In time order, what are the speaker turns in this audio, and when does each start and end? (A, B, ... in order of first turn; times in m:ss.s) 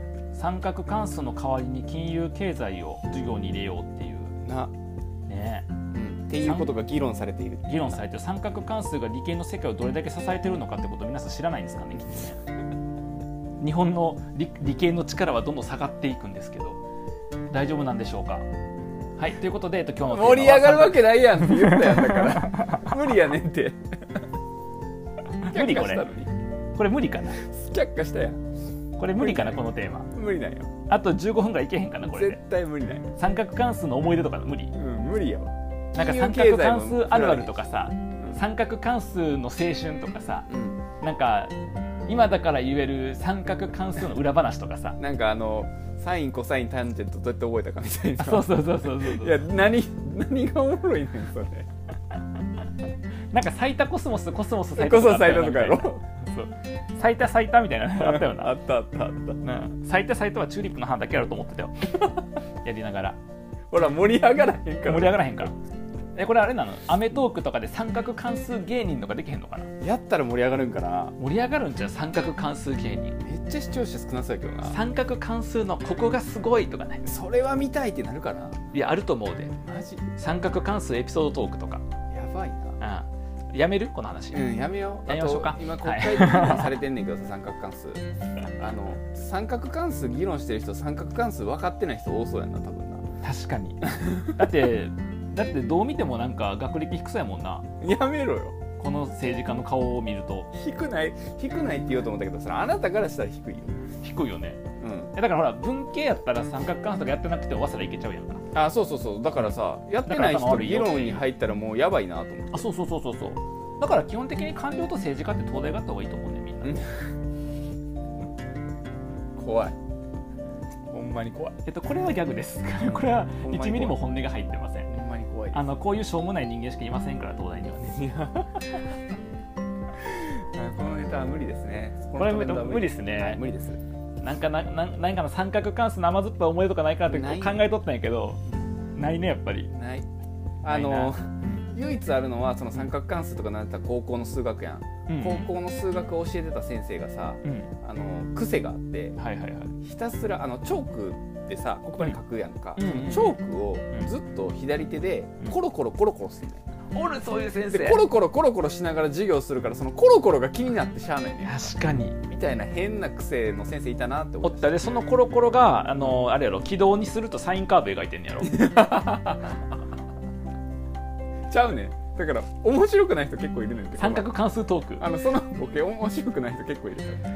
0:00.3-0:04.4 A
0:04.4-0:04.7 B
0:05.3-0:05.7 A
0:05.9-0:08.0 B
0:06.4-0:06.7 A
0:07.6-0:12.4 A
0:13.6-0:16.8 A
0:17.5-0:18.5 A
0:19.2-0:22.6 A
0:20.1-0:24.2 B
0:25.4-0:26.0 A
0:25.5-0:26.3 B
0:26.8-0:27.4 A
0:27.3-0:28.4 B
0:29.0-0:30.1 A
0:29.2-0:29.6 B
0:30.1-0:30.7 B
0:30.9-0:32.4 A
0:32.0-0:33.1 B
0:33.2-0:34.8 A
0:34.7-0:37.5 B
0:36.0-0:40.5 A
0:40.5-0:40.8 B
0:41.0-0:41.5 A
0:42.1-0:45.0 A
0:45.0-0:51.7 B
0:48.2-0:49.4 A
0:53.3-0:58.5 A
0:54.7-0:56.0 B
0:58.0-0:59.4 B
0:59.4-1:03.2 A
1:03.7-1:05.4 B
1:04.9-1:05.6 A
1:06.2-1:09.7 A
1:09.8-1:11.2 B
1:11.2-1:13.2 A
1:13.2-1:14.8 B
1:14.6-1:17.0 A
1:17.0-1:18.6 B
1:18.7-1:19.6 A
1:19.6-1:20.1 B
1:20.2-1:21.8 A
1:22.1-1:22.8 B
1:22.8-1:24.5 A
1:24.3-1:28.0 B
1:25.1-1:26.8 A
1:28.6-1:33.0 B
1:33.2-1:37.7 A
1:33.9-1:34.3 B
1:37.8-1:38.6 B
1:38.8-1:40.5 A
1:40.5-1:43.8 B
1:44.0-1:44.6 A
1:44.8-1:45.1 B
1:45.2-1:48.4 A
1:48.5-1:52.7 B
1:50.0-1:51.3 A
1:52.5-1:56.8 A
1:56.6-1:56.9 B
1:59.4-1:59.8 B
2:00.9-2:01.6 B
2:01.6-2:04.9 A
2:02.9-2:04.0 B
2:04.9-2:05.7 B
2:05.5-2:08.0 A
2:07.9-2:08.6 B
2:10.0-2:13.8 B
2:12.2-2:13.4 A
2:14.2-2:18.4 A
2:17.1-2:17.7 B
2:19.0-2:19.7 A
2:19.7-2:20.1 B
2:20.6-2:21.7 A
2:20.6-2:29.2 B
2:25.1-2:25.5 A
2:27.4-2:27.7 A
2:29.2-2:29.7 A
2:29.8-2:36.6 B
2:32.8-2:33.4 A
2:36.9-2:38.0 A
2:37.7-2:41.7 B
2:41.4-2:42.2 A
2:42.3-2:44.7 B
2:44.4-2:48.6 A
2:48.4-2:49.6 B
2:51.5-2:54.3 B
2:54.0-2:55.1 A
2:55.0-2:57.2 B